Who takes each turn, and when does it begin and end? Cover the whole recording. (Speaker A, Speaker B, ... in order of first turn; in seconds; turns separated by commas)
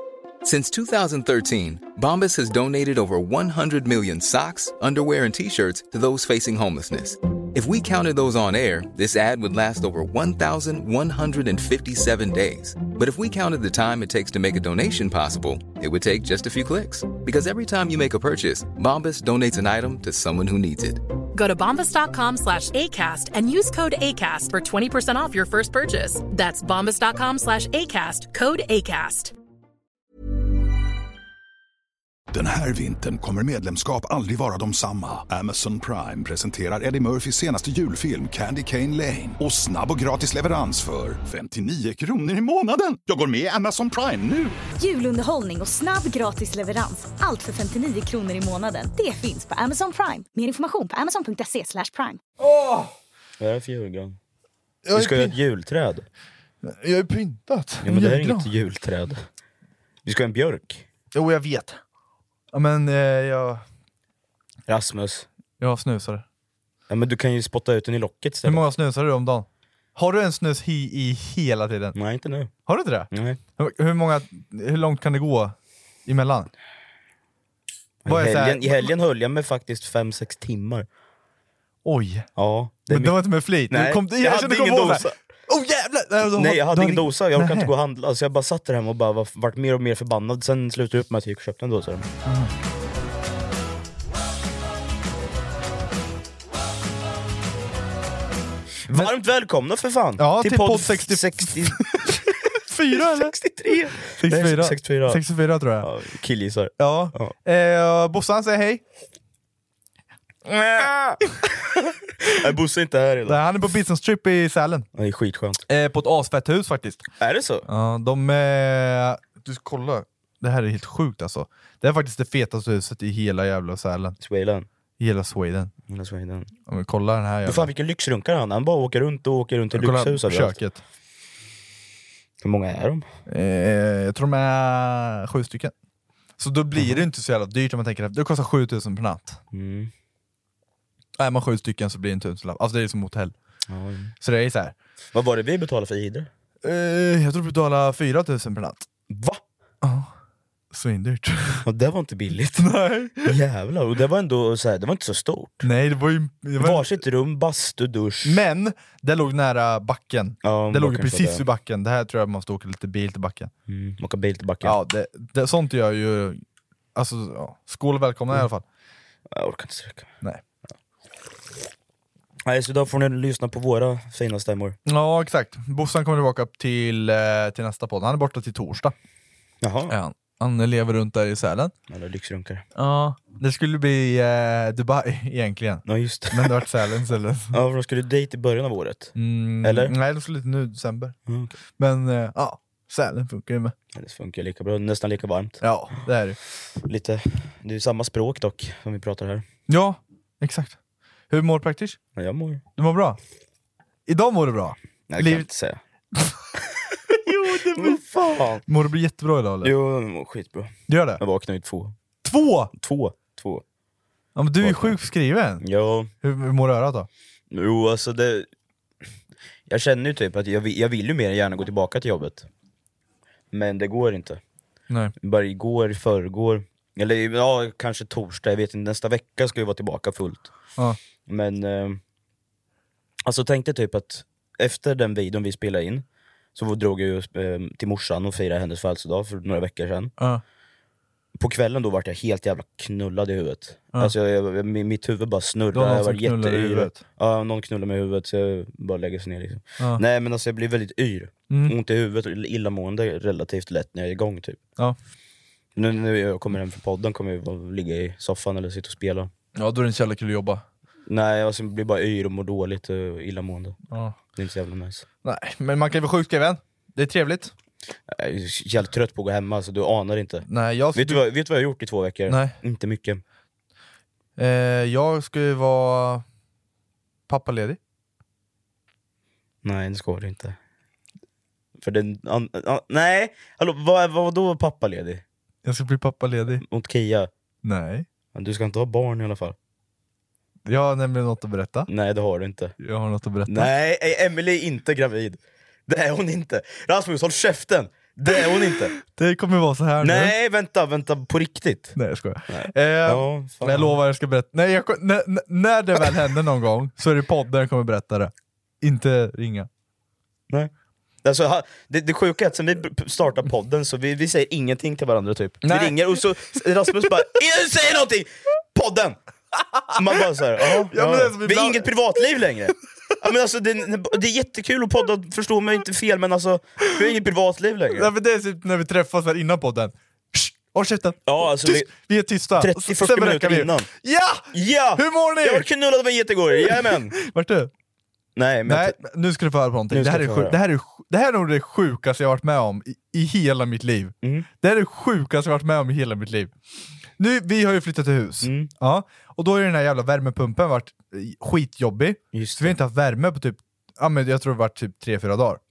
Speaker A: 0.4-21.0, Speaker B: 21.3-29.3, Speaker C: 32.3-44.6, Speaker D: 44.8-52.2, Speaker E: 52.4-52.9, Speaker F: 53.4-54.2, Speaker E: 54.8-55.4, Speaker F: 54.9-56.0, Speaker E: 56.6-58.5, Speaker F: 57.8-59.2, Speaker F: 60.0-60.8, Speaker E: 61.1-61.8, Speaker E: 62.5-63.6, Speaker F: 64.7-65.3, Speaker E: 65.6-66.2, Speaker F: 66.9-68.6, Speaker E: 68.4-72.0, Speaker F: 71.9-72.5, Speaker E: 72.7-75.5, Speaker F: 73.1-73.4, Speaker E: 76.0-76.5, Speaker F: 78.0-80.8, Speaker E: 78.0-78.9, Speaker E: 81.8-82.3, Speaker F: 82.3-83.2, Speaker E: 82.9-87.7, Speaker F: 83.7-85.1, Speaker F: 86.2-92.1, Speaker E: 92.2-92.5, Speaker F: 98.9-102.3, Speaker E: 100.2-103.3, Speaker F: 102.9-105.2, Speaker E: 104.0-105.9, Speaker F: 105.8-107.3, Speaker E: 106.8-108.8, Speaker F: 110.5-113.4, Speaker E: 113.2-114.9, Speaker F: 114.9-115.6, Speaker E: 115.7-117.0, Speaker F: 117.2-117.6, Speaker E: 117.7-124.2, Speaker F: 124.2-124.7, Speaker E: 125.0-125.7, Speaker F: 125.9-126.5, Speaker E: 126.7-127.7, Speaker F: 127.5-130.6, Speaker E: 129.7-130.8, Speaker F: 132.4-133.1, Speaker E: 133.3-135.7, Speaker E: 136.4-139.4, Speaker F: 136.8-137.0, Speaker F: 139.5-139.9, Speaker E: 141.2-143.3, Speaker F: 143.7-144.1, Speaker E: 144.2-144.7, Speaker F: 145.1-146.3, Speaker E: 146.6-148.8, Speaker F: 149.1-149.4, Speaker E: 149.8-150.1, Speaker E: 150.7-151.7, Speaker F: 151.6-152.7, Speaker E: 152.6-153.3, Speaker F: 153.2-155.7, Speaker E: 155.6-157.0, Speaker F: 156.6-158.4, Speaker E: 158.2-163.5, Speaker F: 160.4-161.4, Speaker F: 163.7-164.8, Speaker E: 164.6-166.4, Speaker E: 166.9-168.6, Speaker F: 169.3-170.1, Speaker F: 172.4-174.8, Speaker E: 174.8-178.9, Speaker F: 179.6-179.9, Speaker E: 179.9-181.7, Speaker F: 181.9-182.7, Speaker E: 182.7-187.6, Speaker F: 185.8-186.6, Speaker F: 187.5-189.9, Speaker E: 189.1-191.2, Speaker F: 191.3-191.6, Speaker E: 191.8-193.7, Speaker F: 193.9-195.6, Speaker E: 195.6-196.4, Speaker F: 196.8-199.4, Speaker E: 199.7-200.8, Speaker E: 201.3-202.0, Speaker F: 202.2-202.6, Speaker E: 202.8-203.2, Speaker E: 204.1-205.5, Speaker F: 205.1-205.8, Speaker E: 207.1-209.7, Speaker F: 207.3-208.6, Speaker F: 209.6-211.9, Speaker E: 210.9-211.2, Speaker E: 212.2-212.7, Speaker F: 212.8-213.6, Speaker E: 214.3-215.6, Speaker F: 214.6-214.9, Speaker F: 215.6-216.1, Speaker E: 216.2-217.1, Speaker F: 217.5-218.5, Speaker F: 219.7-222.5, Speaker F: 223.5-224.4, Speaker E: 224.9-225.1, Speaker F: 225.2-230.5, Speaker F: 231.3-232.0, Speaker F: 233.2-240.1, Speaker F: 241.3-254.6, Speaker E: 245.7-247.0, Speaker E: 251.5-251.8, Speaker F: 255.7-259.3, Speaker E: 259.6-260.6, Speaker F: 261.1-263.8, Speaker E: 263.9-264.2, Speaker F: 264.3-265.1, Speaker E: 265.2-267.5, Speaker F: 268.1-273.2, Speaker E: 270.5-271.2, Speaker E: 272.3-272.6, Speaker E: 274.4-276.2, Speaker E: 277.3-277.8, Speaker F: 279.6-280.6, Speaker F: 281.8-285.2, Speaker E: 285.6-286.6, Speaker F: 286.6-287.3, Speaker E: 287.6-288.1, Speaker F: 288.3-289.6, Speaker E: 290.6-291.9, Speaker F: 291.9-292.7, Speaker E: 292.8-293.7, Speaker F: 293.5-298.9, Speaker E: 299.0-300.3, Speaker F: 300.0-301.9, Speaker E: 301.9-309.7, Speaker F: 302.5-303.9, Speaker F: 311.2-319.2, Speaker E: 315.6-316.2, Speaker E: 319.7-321.9, Speaker F: 319.9-328.1, Speaker E: 327.9-335.7, Speaker F: 331.2-331.9, Speaker F: 332.6-333.9, Speaker F: 334.5-337.1, Speaker E: 336.6-337.7, Speaker F: 338.4-339.0, Speaker E: 338.7-346.5, Speaker F: 339.9-340.6, Speaker F: 344.2-344.5, Speaker E: 347.2-355.6, Speaker F: 348.4-348.7, Speaker F: 352.3-352.8